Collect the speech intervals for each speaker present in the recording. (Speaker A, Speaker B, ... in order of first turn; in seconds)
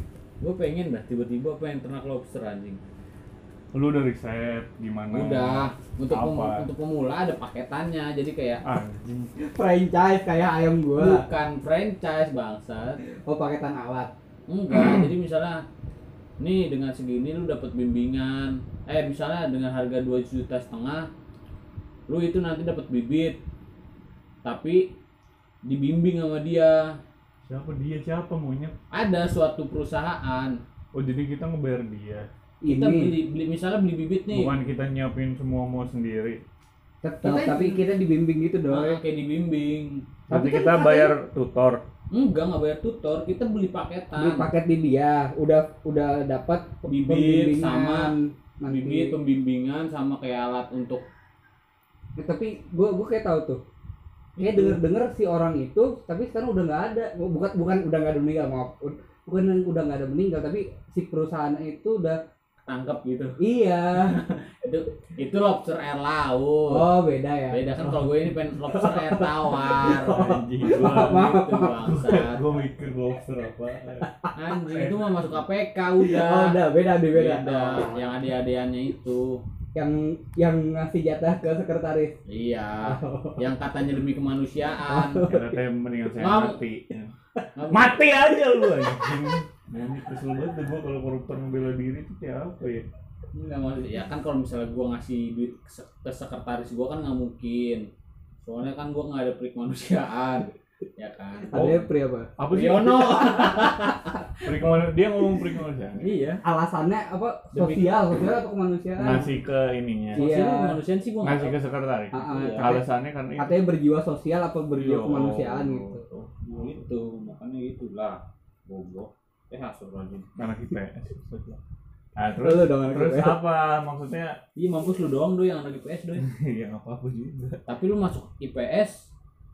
Speaker A: 0.4-2.8, 5.1-8.6, 11.0-13.0, 14.5-15.6, 16.4-21.1, 22.1-23.4, 24.4-24.9, 25.6-26.9, 28.9-30.6, 32.6-34.5, 37.2-37.8, 38.7-40.0, 42.1-44.5, 46.9-48.1, 48.7-51.0, 54.4-54.8, 62.7-63.4, 63.9-66.9, 67.5-72.4, 74.3-79.4, 82.3-85.2, 86.2-86.6, 87.5-88.0, 93.3-97.9, 98.4-101.7, 102.5-104.1, 106.0-106.4, 107.5-108.1, 110.1-111.6, 112.3-112.8, 116.5-120.3, 124.5-126.2, 127.7-129.1
Speaker B: 3.7-6.7, 8.6-9.3, 14.7-15.1, 27.4-28.7, 30.9-32.3, 34.3-36.4, 40.3-41.8, 69.9-71.3, 71.8-75.4, 85.2-87.1, 87.7-92.8, 101.5-103.3, 104.4-106.1, 109.0-110.2, 111.2-113.6, 114.7-116.8, 120.4-121.6, 122.2-124.4, 126.2-127.6
Speaker C: 9.4-11.2, 13.2-14.1, 32.6-33.1, 37.0-39.0, 40.3-41.1, 44.2-49.1, 52.2-53.6, 54.4-62.2, 63.4-64.2, 66.7-67.9, 68.6-71.8, 76.0-78.2, 79.7-82.1, 82.8-83.5, 84.9-85.6, 88.6-89.0, 101.5-102.3, 103.3-105.5, 106.4-109.3, 110.1-110.8, 112.1-116.0, 122.4-123.4